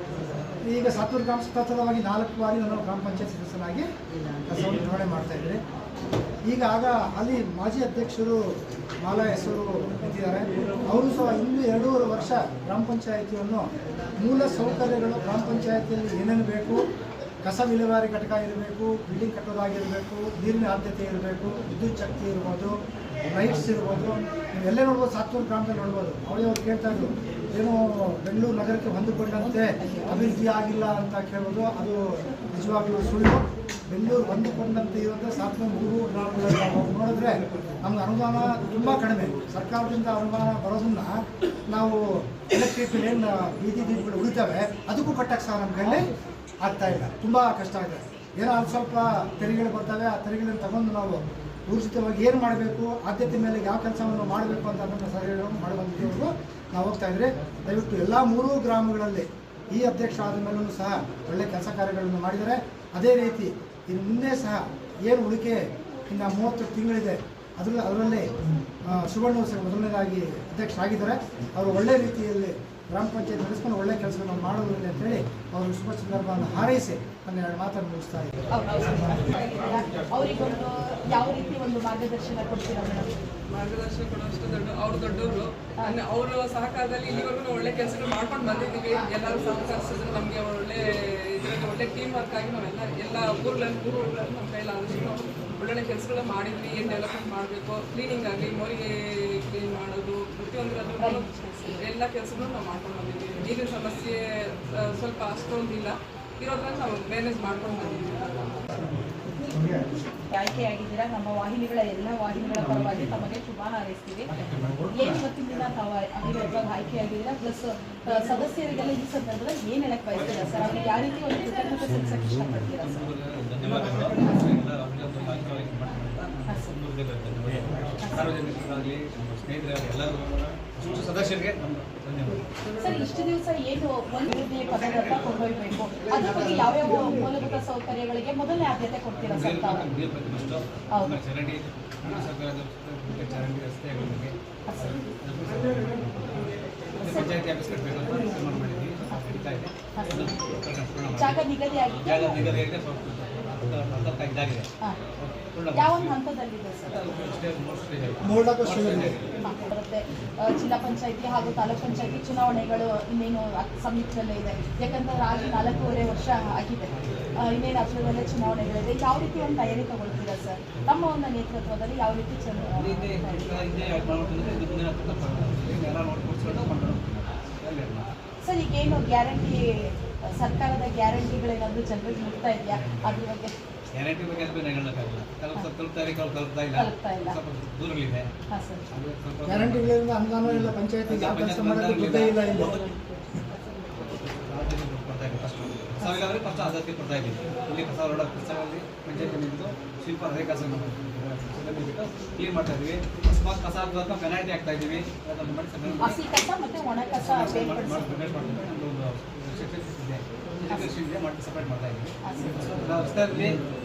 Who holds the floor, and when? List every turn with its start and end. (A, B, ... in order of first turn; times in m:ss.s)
0:00.6-0:03.9 A
0:04.5-0:05.6 A
0:06.4-0:08.4 A
0:09.0-0:13.7 A
0:14.2-0:16.8 A
0:17.4-0:41.2 A
0:29.4-0:30.4 B
0:41.7-1:08.3 A
1:08.8-1:18.4 A
1:18.5-1:23.1 B
1:23.5-1:48.6 C
1:41.0-1:41.3 B
1:49.4-1:49.9 A
1:50.3-1:54.3 B
1:54.3-1:55.2 D
1:54.9-2:03.0 B
2:02.8-2:12.5 D
2:06.5-2:06.7 B
2:08.0-2:08.3 B
2:12.8-2:19.9 B
2:19.2-2:24.3 D
2:20.9-2:21.2 B
2:24.7-2:25.0 B
2:25.2-2:34.7 D
2:27.0-2:27.3 B
2:31.1-2:32.4 B
2:35.2-2:36.1 D
2:35.7-2:37.0 B
2:36.9-2:39.3 D
2:38.2-2:39.1 A
2:39.4-2:53.6 B
2:52.7-2:58.1 D
2:58.4-3:03.5 B
3:02.7-3:03.2 D
3:03.9-3:08.3 D
3:06.8-3:07.4 B
3:08.5-3:08.8 B
3:08.9-3:12.8 D
3:09.4-3:12.8 A
3:12.6-3:13.0 B
3:14.2-3:26.2 D
3:16.0-3:16.2 B
3:26.0-3:28.1 B
3:27.2-3:33.6 D
3:32.2-3:32.6 B